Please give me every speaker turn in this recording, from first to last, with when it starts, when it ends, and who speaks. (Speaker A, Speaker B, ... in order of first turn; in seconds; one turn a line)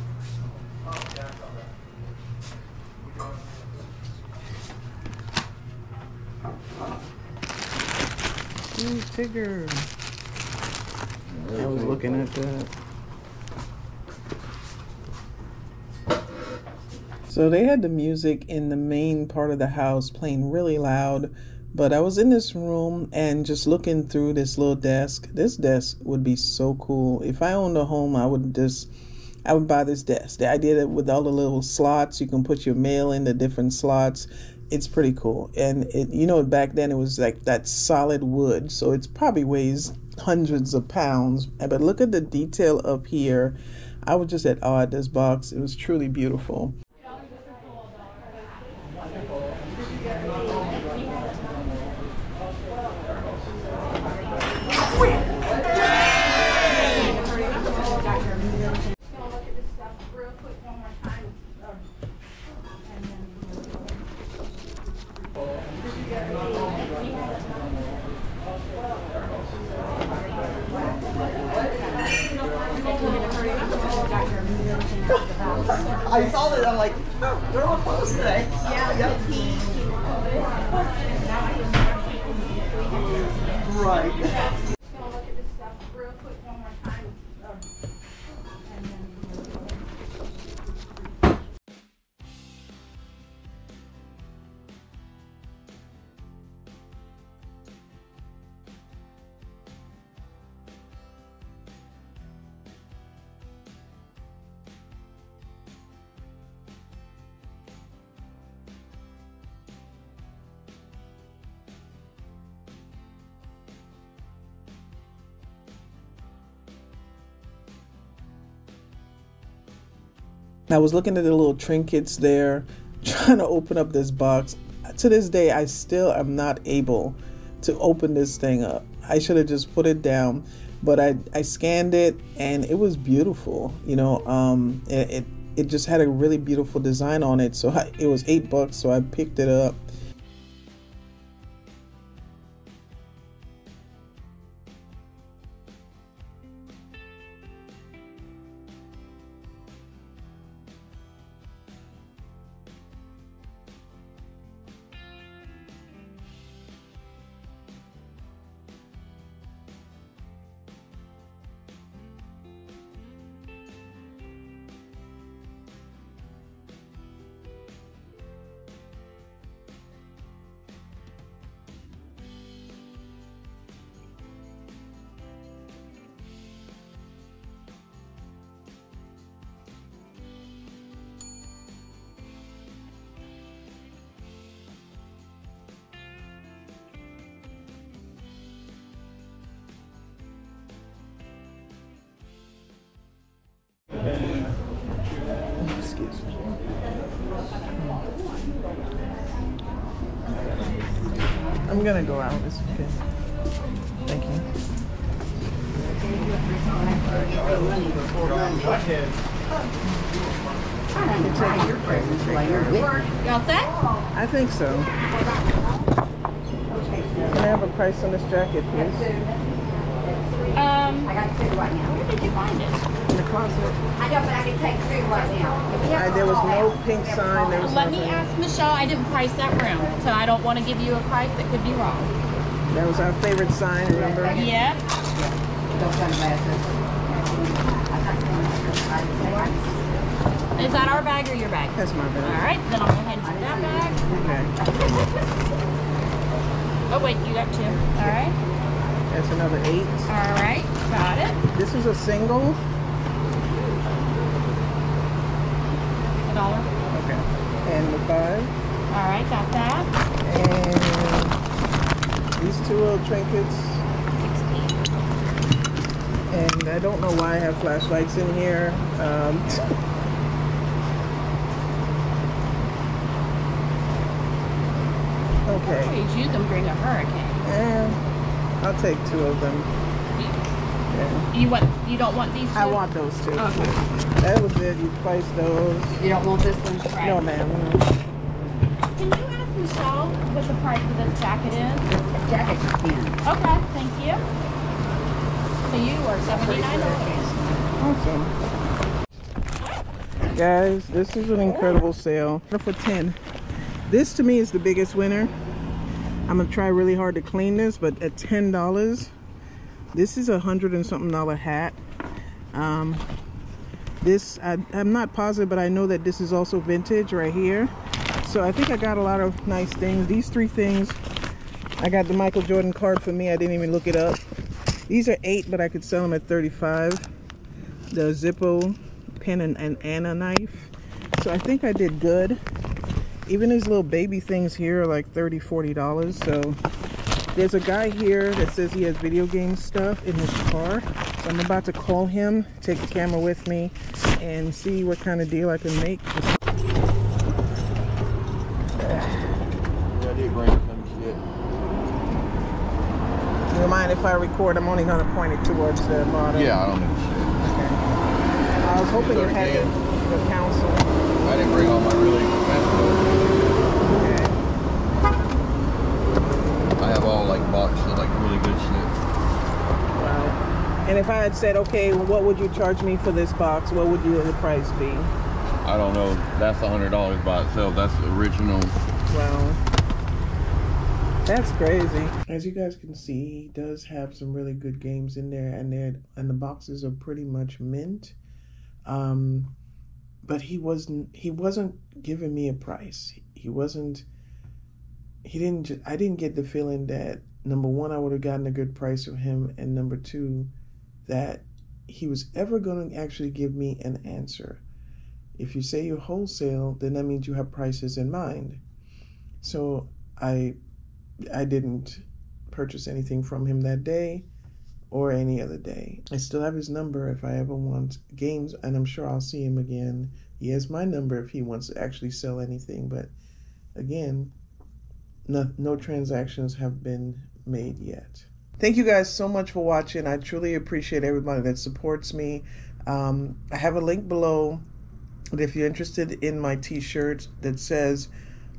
Speaker A: 8.7-9.9
Speaker B: 11.3-12.3
Speaker A: 11.5-12.7
Speaker A: 17.3-28.9
Speaker A: 29.4-46.8
Speaker C: 75.1-79.3
Speaker C: 83.6-84.4
Speaker A: 120.7-139.9
Speaker A: 195.6-196.6
Speaker A: 201.7-203.0
Speaker A: 204.1-204.5
Speaker D: 205.8-208.8
Speaker D: 210.9-213.1
Speaker A: 211.1-213.0
Speaker E: 213.2-213.7
Speaker A: 214.1-214.9
Speaker D: 216.7-217.6
Speaker A: 217.3-219.1
Speaker D: 218.7-219.4
Speaker D: 220.0-222.1
Speaker E: 220.6-221.1
Speaker E: 221.8-222.8
Speaker A: 223.1-223.8
Speaker D: 224.0-227.9
Speaker A: 225.9-228.3
Speaker E: 227.6-232.1
Speaker A: 232.7-234.5
Speaker D: 233.9-239.8
Speaker E: 234.3-234.8
Speaker E: 239.2-239.5
Speaker E: 240.6-244.0
Speaker A: 241.8-242.5
Speaker D: 243.2-244.8
Speaker A: 244.1-244.5
Speaker E: 246.9-248.4
Speaker A: 247.9-248.2
Speaker A: 249.1-250.1
Speaker E: 250.1-251.4
Speaker A: 251.5-252.6
Speaker E: 256.3-256.7
Speaker A: 256.9-258.5
Speaker E: 258.9-259.9
Speaker A: 260.2-261.4
Speaker A: 262.4-263.9
Speaker E: 264.1-264.8
Speaker A: 266.3-269.7
Speaker A: 275.5-276.0
Speaker E: 275.6-277.4
Speaker A: 277.4-278.0
Speaker A: 278.6-279.7
Speaker A: 280.9-281.3
Speaker E: 281.3-282.8
Speaker A: 282.6-286.0
Speaker E: 283.4-283.8
Speaker D: 286.0-286.9
Speaker E: 286.9-287.2
Speaker A: 287.0-287.9
Speaker E: 289.0-291.9
Speaker D: 291.9-293.2
Speaker E: 293.2-294.2
Speaker E: 295.6-297.3
Speaker D: 296.2-297.7
Speaker A: 297.8-298.3
Speaker A: 300.3-303.2
Speaker A: 303.9-305.3
Speaker A: 306.3-309.1
Speaker A: 309.9-311.8
Speaker A: 312.5-313.1
Speaker A: 314.0-317.7
Speaker A: 318.2-321.0
Speaker A: 321.8-324.2
Speaker A: 324.9-327.1
Speaker A: 327.9-332.4
Speaker A: 333.3-336.6
Speaker A: 337.3-346.4
Speaker A: 348.8-349.1
Speaker B: 349.9-351.2
Speaker A: 353.5-356.6
Speaker B: 356.3-357.5
Speaker A: 357.4-357.8
Speaker A: 358.6-360.9
Speaker B: 359.0-359.7
Speaker B: 361.2-363.6
Speaker A: 363.8-364.4
Speaker B: 366.8-369.0
Speaker A: 369.9-375.1
Speaker B: 375.6-378.8
Speaker A: 379.1-379.6
Speaker A: 381.2-388.2
Speaker A: 388.9-389.5
Speaker A: 390.2-394.1
Speaker A: 395.2-400.5
Speaker A: 401.1-404.6
Speaker A: 405.4-408.6
Speaker A: 409.4-410.6
Speaker A: 411.3-414.3
Speaker A: 414.9-423.1
Speaker A: 423.8-424.3
Speaker A: 425.3-434.7
Speaker A: 435.3-438.1